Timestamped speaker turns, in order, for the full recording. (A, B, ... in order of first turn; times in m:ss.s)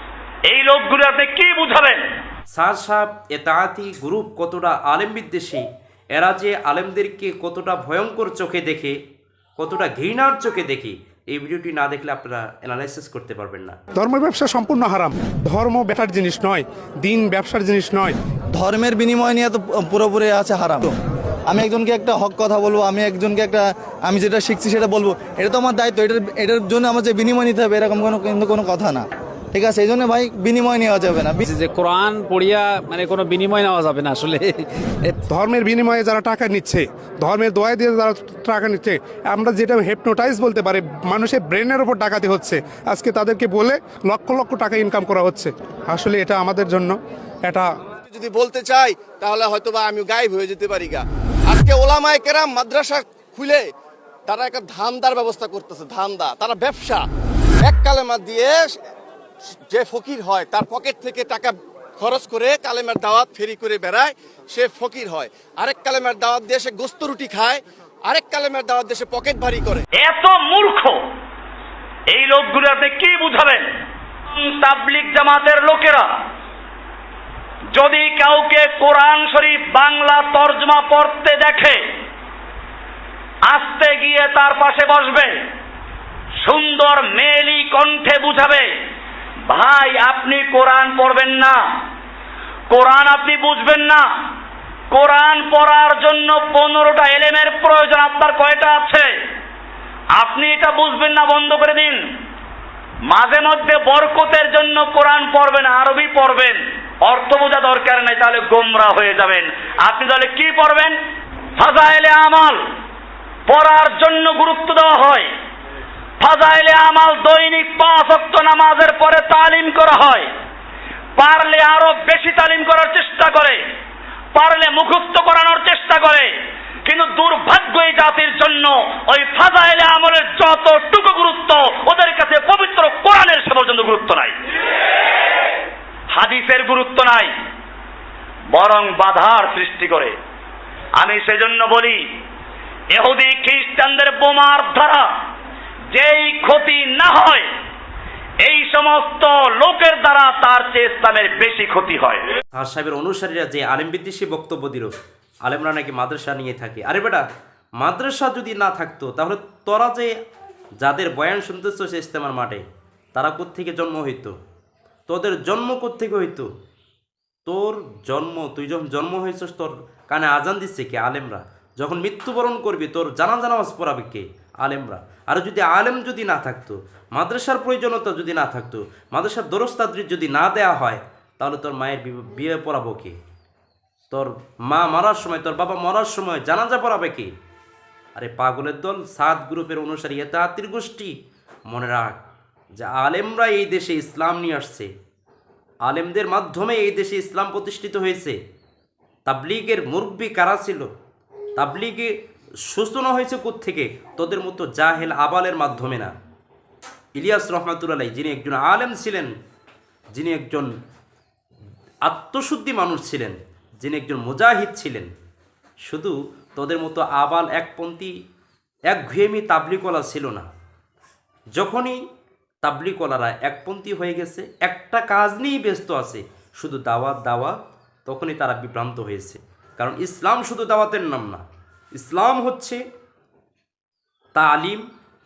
0:00.5-0:02.0 A
0:02.5-0:09.0 B
0:09.6-0:13.8 B
0:14.0-0:18.2 C
0:18.5-0:20.9 D
0:21.5-0:31.5 D
0:31.5-0:35.2 E
0:35.3-0:47.7 C
0:48.1-0:53.7 F
0:54.3-0:57.0 F
0:57.6-0:58.6 F
0:59.7-1:09.8 F
1:10.0-1:11.0 A
1:12.1-1:13.7 A
1:14.3-1:16.1 A
1:17.7-1:21.8 A
1:23.5-1:25.3 A
1:26.4-1:28.7 A
1:29.5-1:31.6 A
1:32.7-1:34.0 A
1:34.9-1:39.1 A
1:40.2-1:42.0 A
1:43.1-1:51.0 A
1:51.6-1:52.6 A
1:53.5-1:55.3 A
1:56.2-2:00.3 A
2:01.2-2:03.6 A
2:04.4-2:06.3 A
2:06.8-2:14.4 A
2:16.1-2:17.3 A
2:18.5-2:20.2 A
2:21.0-2:22.0 A
2:22.9-2:25.1 A
2:25.9-2:27.5 A
2:28.4-2:32.3 A
2:32.5-2:34.9 B
2:35.4-2:37.2 B
2:37.8-2:40.1 B
2:40.8-2:42.6 B
2:43.2-2:44.4 B
2:45.1-2:46.5 B
2:47.5-3:03.2 B
3:04.1-3:07.3 B
3:08.2-3:11.1 B
3:11.7-3:12.2 B
3:12.8-3:14.9 B
3:15.8-3:18.4 B
3:19.3-3:20.9 B
3:21.6-3:22.1 B
3:22.7-3:26.1 B
3:27.2-3:29.3 B
3:30.1-3:30.7 B
3:32.1-3:35.1 B
3:35.9-3:38.1 B
3:38.9-3:40.5 B
3:41.6-3:42.0 B
3:42.6-3:51.4 B
3:52.0-3:52.8 B
3:54.4-3:54.8 B